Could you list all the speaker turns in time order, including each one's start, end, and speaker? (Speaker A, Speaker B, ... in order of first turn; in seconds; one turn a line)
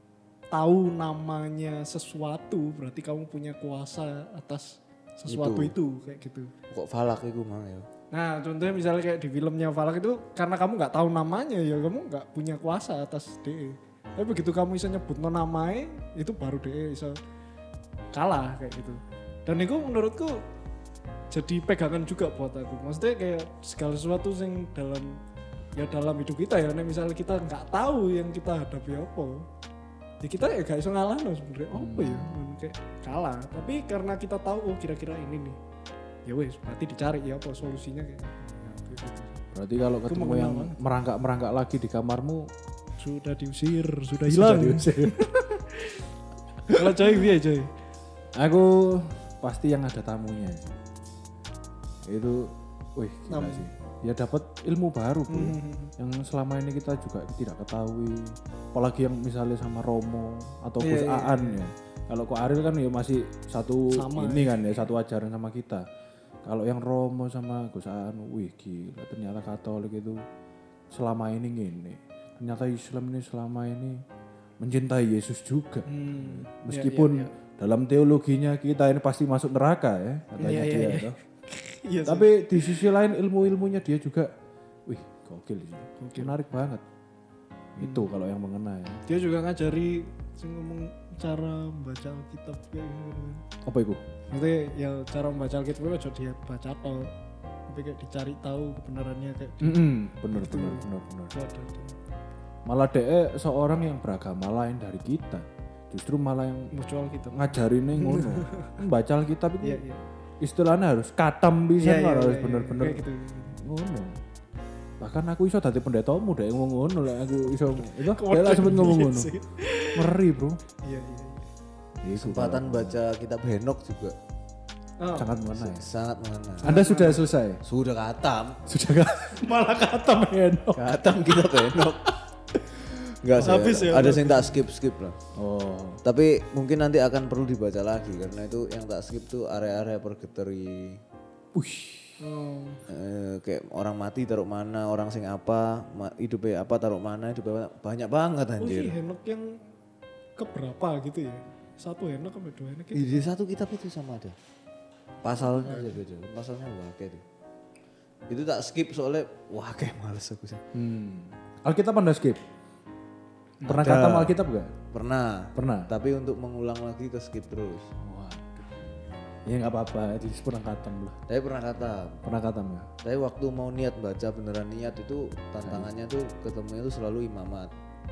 Speaker A: 0.5-6.5
Speaker B: 5.3-5.7
Speaker B: 6.7-7.9
Speaker A: 8.1-17.2
Speaker A: 18.1-20.4
Speaker A: 21.3-25.2
Speaker A: 25.8-29.5
Speaker A: 30.2-35.6
Speaker C: 31.7-32.4
Speaker A: 36.2-39.4
Speaker C: 39.5-42.5
Speaker A: 40.1-40.8
Speaker A: 43.0-46.0
Speaker C: 44.2-45.3
Speaker A: 46.7-47.7
Speaker C: 48.4-50.7
Speaker C: 52.1-65.8
Speaker A: 53.3-53.7
Speaker A: 55.3-55.9
Speaker A: 60.8-61.6
Speaker A: 63.9-64.7
Speaker C: 66.4-70.2
Speaker C: 70.9-74.0
Speaker C: 74.6-81.2
Speaker A: 75.9-77.3
Speaker A: 80.4-82.8
Speaker C: 82.0-84.3
Speaker C: 84.9-86.8
Speaker A: 86.0-86.3
Speaker C: 87.8-89.0
Speaker A: 89.1-93.4
Speaker C: 93.7-94.0
Speaker A: 94.3-97.1
Speaker A: 97.7-102.1
Speaker C: 99.6-101.3
Speaker C: 102.7-106.7
Speaker A: 106.7-108.8
Speaker C: 107.3-109.8
Speaker A: 109.6-110.0
Speaker C: 110.4-113.0
Speaker A: 111.8-113.6
Speaker C: 113.6-114.2
Speaker C: 115.0-119.3
Speaker A: 117.8-120.2
Speaker C: 119.9-120.6
Speaker A: 120.8-121.5
Speaker C: 122.0-123.0
Speaker B: 122.2-124.2
Speaker A: 125.0-125.3
Speaker C: 125.2-125.8
Speaker B: 125.6-126.7
Speaker A: 126.6-127.2
Speaker C: 126.6-127.6
Speaker B: 127.6-128.6
Speaker C: 128.7-130.8
Speaker B: 130.8-132.1
Speaker B: 133.2-135.2
Speaker A: 133.4-134.6
Speaker C: 135.4-136.0
Speaker B: 136.0-141.0
Speaker C: 141.6-142.2
Speaker A: 142.2-142.8
Speaker B: 142.9-149.0
Speaker A: 148.6-149.6
Speaker A: 150.4-153.2
Speaker B: 152.9-154.4
Speaker B: 155.2-157.2
Speaker A: 155.4-155.9
Speaker B: 158.3-160.6
Speaker C: 160.7-162.4
Speaker B: 163.6-164.3
Speaker C: 163.7-164.7
Speaker B: 164.9-167.9
Speaker C: 165.6-165.9
Speaker C: 168.0-168.7
Speaker C: 169.5-171.2
Speaker B: 171.3-172.2
Speaker C: 172.2-172.9
Speaker B: 173.0-177.7
Speaker C: 175.6-175.9